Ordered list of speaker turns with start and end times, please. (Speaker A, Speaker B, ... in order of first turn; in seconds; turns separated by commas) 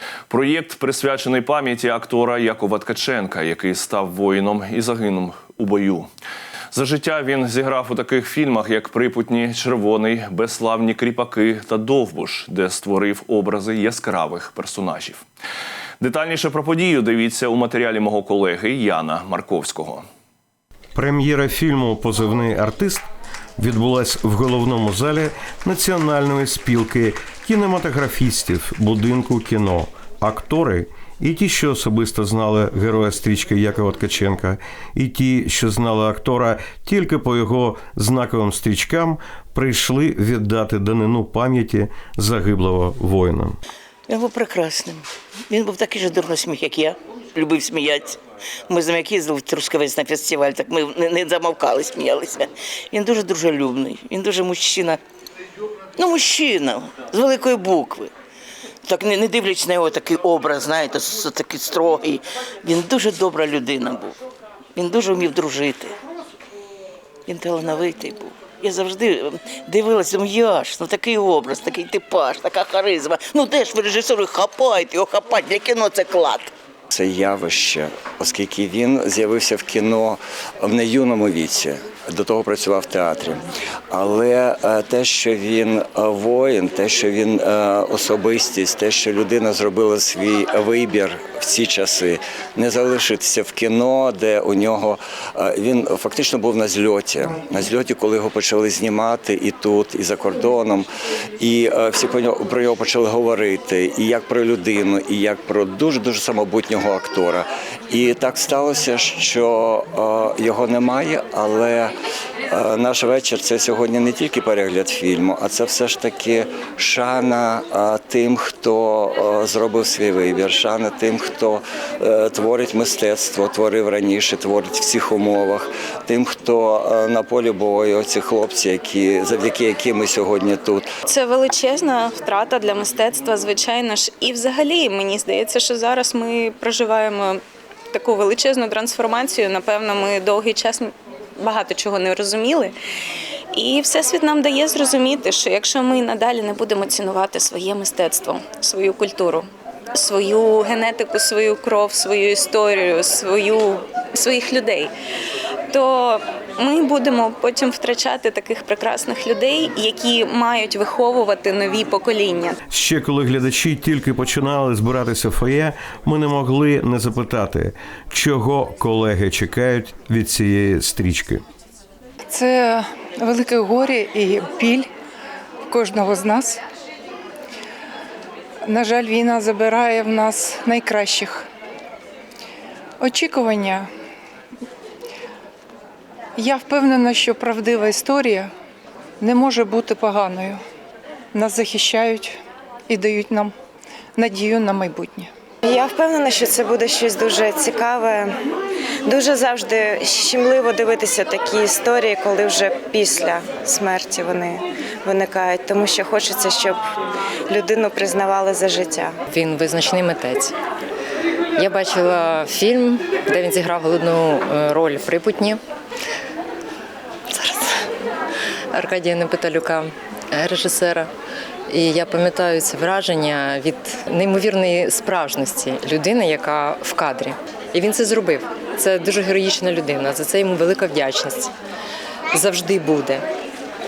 Speaker A: 0.3-6.1, Speaker A: 6.7-15.2, Speaker A: 16.0-20.0, Speaker B: 20.9-23.0, Speaker B: 23.6-43.6, Speaker C: 44.1-48.2, Speaker C: 48.7-55.0, Speaker C: 56.0-58.1, Speaker C: 58.9-64.1, Speaker C: 64.8-65.9, Speaker C: 67.3-76.5, Speaker D: 76.9-83.4, Speaker D: 83.9-100.9, Speaker D: 101.4-111.9, Speaker D: 112.5-130.8, Speaker E: 131.1-137.4, Speaker E: 137.9-142.7, Speaker E: 143.5-154.9, Speaker E: 155.7-162.6, Speaker B: 162.7-171.4, Speaker F: 172.3-174.9, Speaker F: 175.7-176.6, Speaker F: 178.6-181.5, Speaker F: 183.0-183.9, Speaker F: 186.4-188.5, Speaker F: 189.2-190.6, Speaker F: 191.3-193.6, Speaker F: 194.2-195.3, Speaker G: 195.7-198.3, Speaker G: 199.1-206.8, Speaker G: 207.5-209.2, Speaker H: 209.3-210.5, Speaker H: 211.6-215.6, Speaker H: 217.3-217.7, Speaker H: 218.7-221.1, Speaker H: 221.7-231.5, Speaker H: 232.3-233.2